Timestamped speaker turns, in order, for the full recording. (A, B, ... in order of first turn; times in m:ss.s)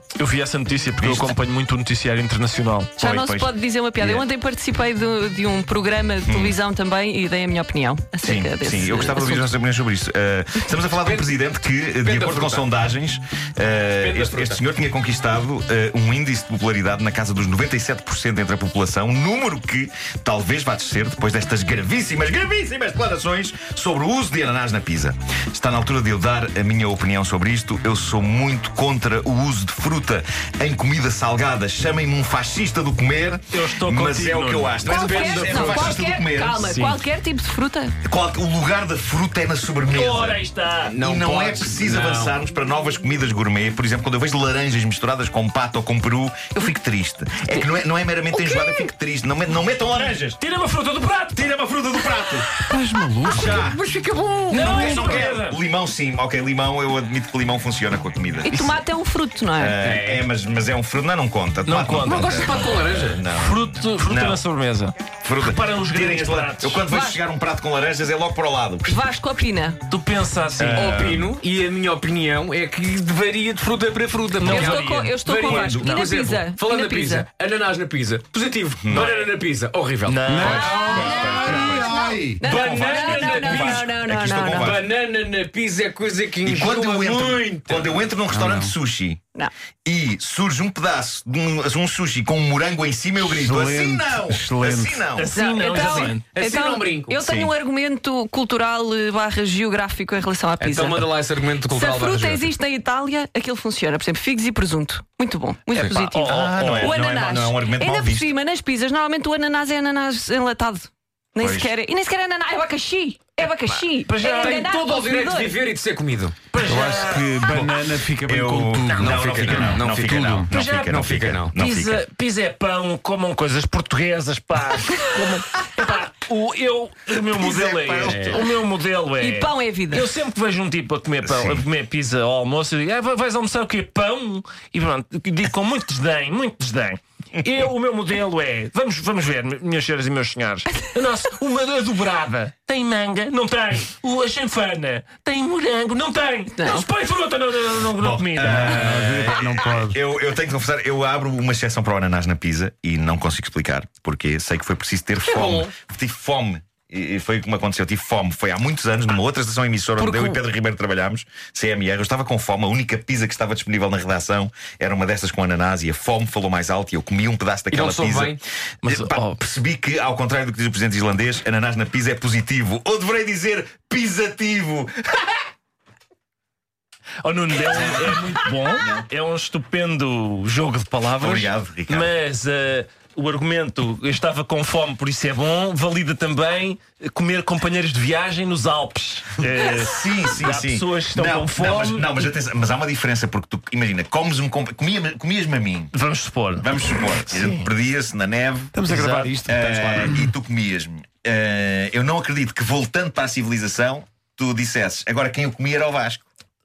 0:00.2-0:03.0 A
0:01.0-0:01.4 B
0:03.0-0:04.2 B
0:03.0-0:09.5 C
0:06.2-0:06.6 B
0:08.2-0:36.7 B
0:11.0-0:11.3 D
0:12.0-0:12.7 D
0:14.0-0:14.6 D
0:33.5-0:34.8 A
0:34.8-0:35.8 D
0:34.8-0:37.9 C
0:36.6-0:37.0 A
0:38.0-0:40.4 B
0:39.8-0:41.0 A
0:40.9-0:42.4 D
0:41.0-0:50.4 B
0:48.3-0:48.9 C
0:50.4-0:51.5 A
0:51.4-0:52.5 B
0:52.7-0:53.7 E
0:53.2-0:55.3 D
0:53.2-0:53.8 B
0:54.5-0:55.6 A
0:54.5-0:58.8 B
0:58.4-0:59.7 C
0:59.6-1:04.4 B
0:59.8-1:00.2 D
1:01.6-1:02.2 A
1:02.0-1:03.2 D
1:03.3-1:06.8 A
1:05.2-1:09.0 B
1:06.9-1:07.2 C
1:08.8-1:09.8 C
1:09.9-1:11.2 A
1:10.6-1:11.3 B
1:10.7-1:23.8 D
1:14.4-1:16.0 A
1:14.4-1:17.3 C
1:18.8-1:19.1 B
1:18.9-1:19.3 A
1:20.0-1:21.0 A
1:20.2-1:22.4 E
1:20.6-1:24.8 C
1:20.7-1:24.8 B
1:23.2-1:23.8 A
1:24.6-1:28.1 D
1:26.4-1:29.2 B
1:28.3-1:28.7 E
1:29.8-1:35.3 B
1:33.3-1:35.0 E
1:35.1-1:36.2 A
1:35.3-1:41.1 C
1:35.7-1:37.2 D
1:37.2-1:37.5 B
1:40.6-1:42.5 D
1:41.7-1:55.6 C
1:45.7-1:47.0 A
1:46.2-1:48.3 B
1:51.4-1:51.7 B
1:54.1-1:54.7 A
1:54.3-1:56.4 D
1:56.5-1:57.7 A
1:56.6-2:00.5 E
1:58.2-2:02.0 B
1:58.9-2:00.3 D
2:00.5-2:28.8 A
2:00.9-2:01.5 D
2:07.3-2:08.4 B
2:08.0-2:08.5 D
2:09.2-2:10.1 C
2:11.2-2:11.6 B
2:26.5-2:26.8 C
2:28.0-2:55.3 B
2:28.4-2:30.0 E
2:35.2-2:35.8 D
2:40.0-2:40.4 D
2:47.7-2:48.4 D
2:48.8-2:49.4 A
2:57.2-3:12.3 A
2:57.7-2:59.0 B
3:01.2-3:02.1 B
3:09.7-3:15.9 B
3:15.9-3:17.7 A
3:16.6-3:18.8 B
3:18.7-3:20.2 E
3:18.9-3:19.3 A
3:19.4-3:26.2 B